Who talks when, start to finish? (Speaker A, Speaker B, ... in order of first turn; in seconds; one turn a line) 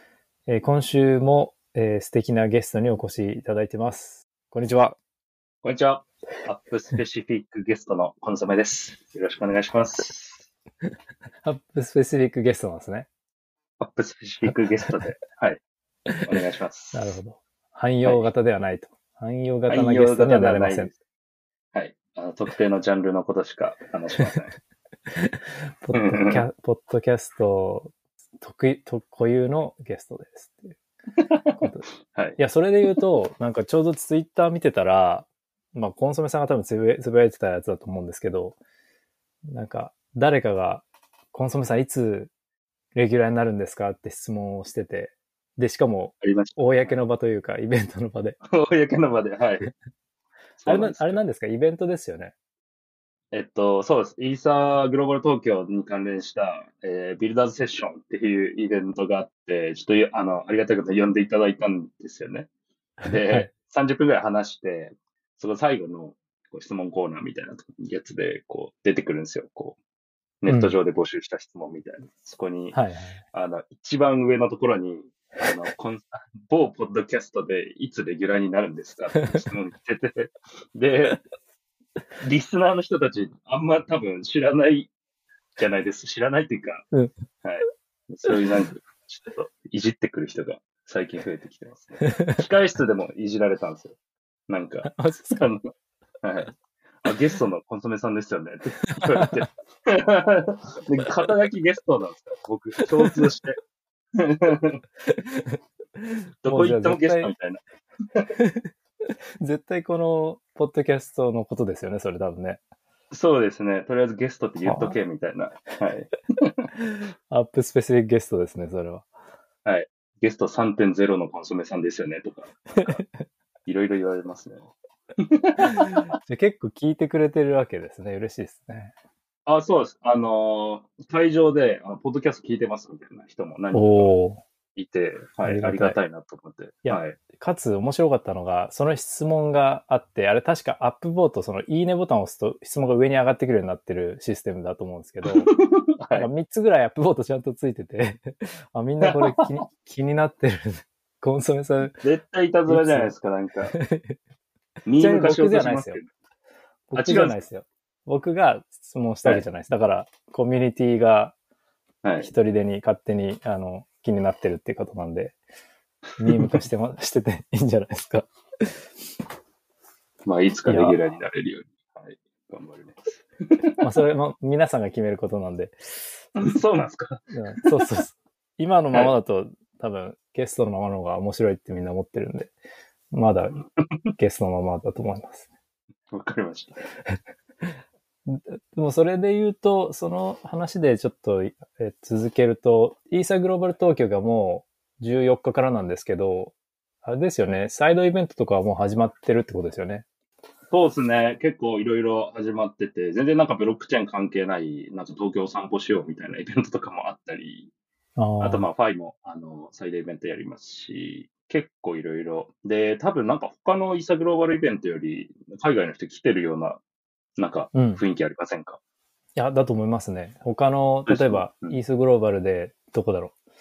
Speaker A: 0.5-5.0
Speaker B: 5.6-10.4
Speaker A: 11.4-13.1
Speaker B: 13.8-15.6
Speaker B: 16.2-17.1
Speaker A: 16.9-20.9
Speaker B: 19.7-20.9
Speaker B: 21.7-24.5
Speaker A: 25.1-30.8
Speaker B: 25.9-26.4
Speaker B: 31.2-32.4
Speaker A: 31.6-31.8
Speaker A: 32.4-38.6
Speaker A: 39.4-42.3
Speaker A: 42.9-48.4
Speaker B: 46.2-47.0
Speaker B: 48.5-49.7
Speaker B: 50.6-51.2
Speaker A: 50.6-52.3
Speaker B: 53.3-62.5
Speaker A: 63.0-63.5
Speaker B: 63.0-69.8
Speaker B: 70.4-72.8
Speaker A: 70.5-70.8
Speaker A: 72.7-73.2
Speaker B: 73.3-81.2
Speaker A: 79.2-79.4
Speaker B: 82.2-84.9
Speaker B: 85.6-86.8
Speaker B: 87.4-93.9
Speaker B: 94.5-95.7
Speaker A: 94.8-95.5
Speaker B: 96.2-103.6
Speaker A: 98.9-99.2
Speaker B: 104.2-104.8
Speaker A: 105.0-107.3
Speaker B: 106.4-107.6
Speaker A: 108.4-108.7
Speaker A: 109.4-112.6
Speaker B: 113.1-116.7
Speaker A: 114.6-115.0
Speaker A: 116.8-119.0
Speaker B: 119.6-123.0
Speaker A: 122.8-123.2
Speaker B: 123.7-126.0
Speaker A: 125.7-128.9
Speaker B: 129.4-134.1
Speaker A: 133.7-134.4
Speaker B: 134.7-137.2
Speaker A: 135.4-135.9
Speaker A: 136.8-145.5
Speaker B: 145.2-146.3
Speaker A: 146.2-151.9
Speaker B: 149.1-149.4
Speaker B: 152.0-153.7
Speaker A: 152.7-153.1
Speaker A: 153.7-154.2
Speaker B: 154.9-156.1
Speaker A: 154.9-156.0
Speaker A: 156.9-161.3
Speaker B: 156.9-157.4
Speaker B: 162.0-162.3
Speaker A: 162.2-165.4
Speaker A: 166.2-168.7
Speaker B: 166.3-166.6
Speaker B: 170.2-173.8
Speaker A: 170.7-171.0
Speaker A: 173.8-176.6
Speaker B: 176.3-177.7
Speaker A: 177.3-182.5
Speaker A: 183.1-183.6
Speaker B: 183.8-184.1
Speaker A: 184.2-185.4
Speaker B: 186.1-186.9
Speaker A: 187.1-187.7
Speaker A: 188.2-196.5
Speaker A: 197.0-200.0
Speaker B: 200.7-207.7
Speaker A: 208.2-208.7
Speaker B: 208.4-216.8
Speaker B: 217.4-218.8
Speaker A: 217.7-218.0
Speaker A: 219.3-223.3
Speaker B: 221.1-221.8